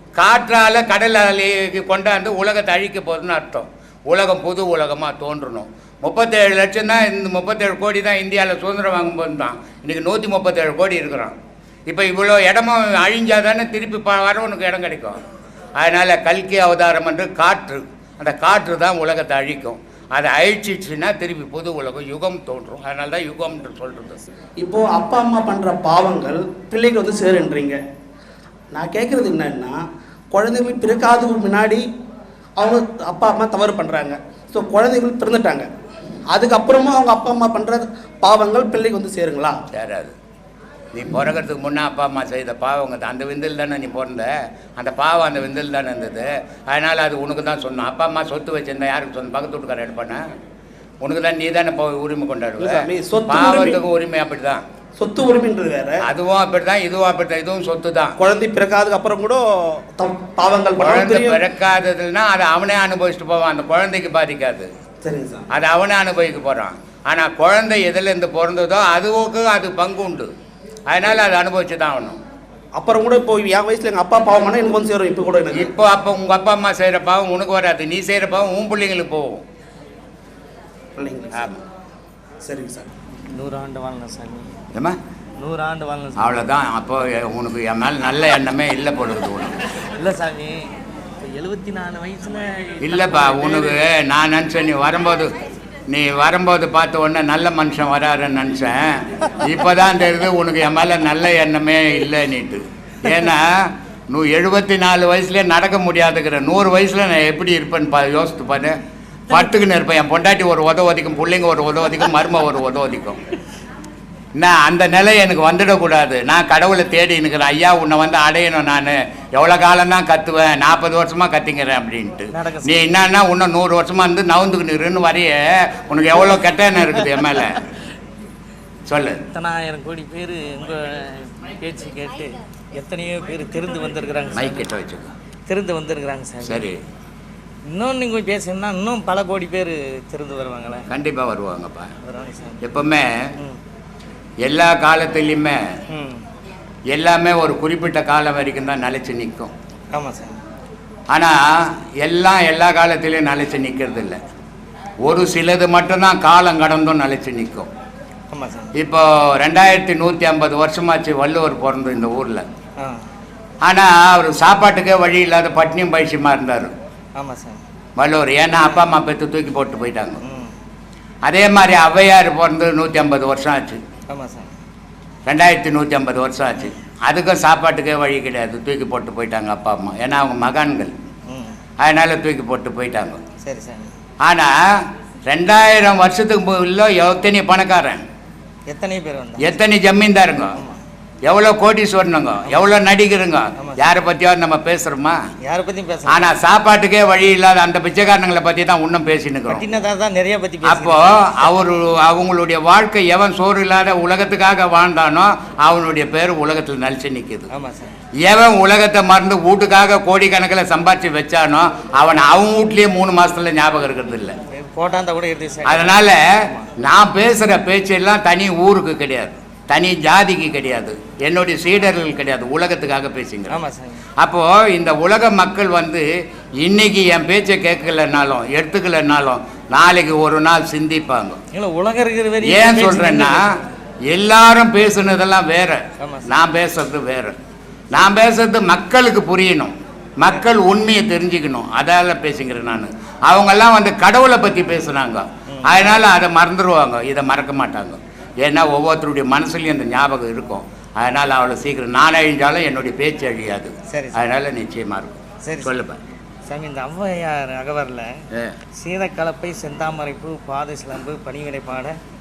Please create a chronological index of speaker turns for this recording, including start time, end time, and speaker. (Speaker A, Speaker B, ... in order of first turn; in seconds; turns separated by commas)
Speaker A: 0.1-11.3, Speaker A: 11.9-15.2, Speaker A: 15.8-24.2, Speaker B: 24.6-27.8, Speaker B: 28.7-31.9, Speaker B: 32.6-35.7, Speaker B: 36.3-39.6, Speaker A: 39.7-40.1, Speaker A: 40.9-50.2, Speaker A: 51.0-54.6, Speaker B: 52.6-53.8, Speaker B: 55.0-56.0, Speaker A: 56.0-58.1, Speaker B: 58.2-61.4, Speaker A: 60.8-64.7, Speaker B: 65.0-65.5, Speaker A: 65.5-70.3, Speaker A: 70.9-72.2, Speaker B: 72.7-75.7, Speaker A: 75.5-79.4, Speaker B: 81.0-81.6, Speaker B: 82.4-82.9, Speaker C: 83.3-84.5, Speaker C: 85.4-86.5, Speaker A: 86.2-89.5, Speaker C: 90.0-90.6, Speaker C: 91.2-93.9, Speaker A: 92.8-95.3, Speaker A: 95.9-108.8, Speaker A: 109.3-113.2, Speaker A: 114.3-127.6, Speaker C: 122.3-123.0, Speaker C: 126.9-127.6, Speaker A: 128.8-129.2, Speaker C: 129.3-134.7, Speaker A: 134.3-135.1, Speaker C: 135.5-136.7, Speaker A: 136.4-136.8, Speaker C: 137.7-140.9, Speaker A: 140.9-141.9, Speaker C: 142.0-142.7, Speaker A: 142.6-143.1, Speaker A: 144.4-145.6, Speaker C: 145.9-146.2, Speaker A: 146.9-149.5, Speaker C: 149.9-150.3, Speaker A: 151.1-154.2, Speaker A: 155.1-157.7, Speaker C: 158.3-158.7, Speaker A: 158.8-162.4, Speaker A: 163.6-166.7, Speaker C: 167.2-167.6, Speaker A: 167.9-170.2, Speaker C: 168.6-168.9, Speaker C: 170.2-170.5, Speaker A: 171.2-173.8, Speaker C: 174.1-174.5, Speaker A: 175.2-180.9, Speaker C: 181.3-181.6, Speaker A: 181.8-183.2, Speaker C: 183.4-183.9, Speaker A: 184.2-184.5, Speaker A: 185.2-188.0, Speaker C: 188.7-189.6, Speaker A: 189.4-190.5, Speaker C: 190.5-190.8, Speaker A: 191.2-195.2, Speaker C: 192.4-192.7, Speaker C: 193.6-193.9, Speaker C: 195.4-196.4, Speaker A: 196.1-199.6, Speaker C: 199.5-201.5, Speaker A: 200.6-207.5, Speaker C: 207.5-207.9, Speaker A: 208.2-214.3, Speaker C: 214.5-216.7, Speaker A: 215.6-216.2, Speaker A: 216.8-223.6, Speaker C: 223.5-224.1, Speaker A: 224.2-226.1, Speaker A: 226.6-231.4, Speaker C: 231.5-233.6, Speaker A: 232.4-233.4, Speaker A: 234.1-237.4, Speaker C: 236.0-236.3, Speaker A: 237.9-256.0, Speaker C: 245.5-246.0, Speaker C: 253.9-254.2, Speaker C: 255.4-255.8, Speaker C: 256.5-258.2, Speaker C: 258.8-261.9